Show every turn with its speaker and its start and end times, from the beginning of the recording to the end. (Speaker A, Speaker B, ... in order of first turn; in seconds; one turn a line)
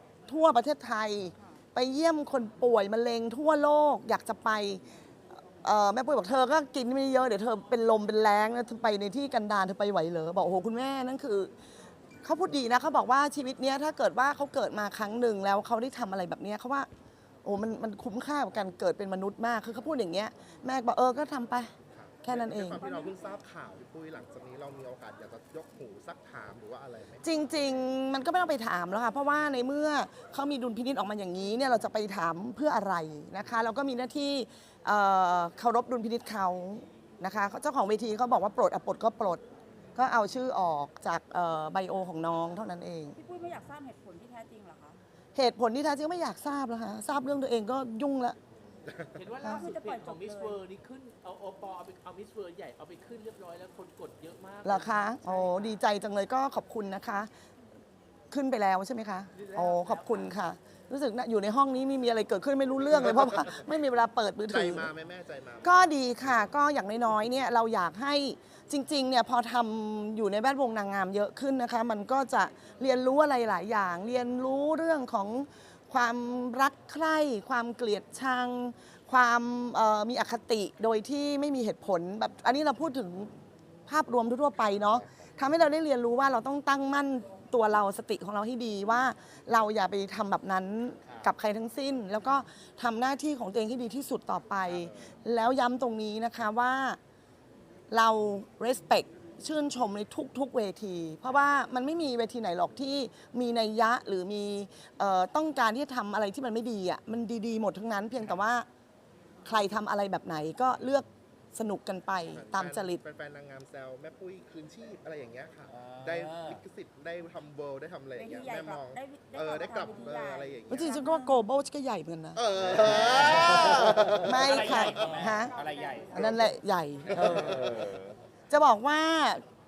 Speaker A: 0.3-4.8
Speaker A: 5.6-11.5
Speaker A: 12.2-16.9
Speaker A: 17.4-22.9
Speaker B: 21.9-27.2
Speaker A: 27.2-39.4
Speaker A: 40.0-43.2
Speaker C: 43.2-45.0
Speaker A: 45.4-48.4
Speaker D: 49.1-55.7
Speaker C: 49.5-50.6
Speaker A: 54.6-57.3
Speaker A: 58.3-64.9
Speaker D: 59.3-60.3
Speaker B: 64.5-66.5
Speaker A: 65.6-83.3
Speaker A: 83.9-97.0
Speaker E: 91.0-91.3
Speaker A: 97.9-108.7
Speaker A: 109.5-113.0
Speaker B: 112.3-121.0
Speaker E: 115.7-116.6
Speaker C: 118.2-121.4
Speaker A: 120.7-125.5
Speaker B: 122.4-125.1
Speaker E: 122.6-126.3
Speaker A: 126.1-127.7
Speaker B: 126.2-126.5
Speaker B: 127.1-128.1
Speaker A: 128.5-129.4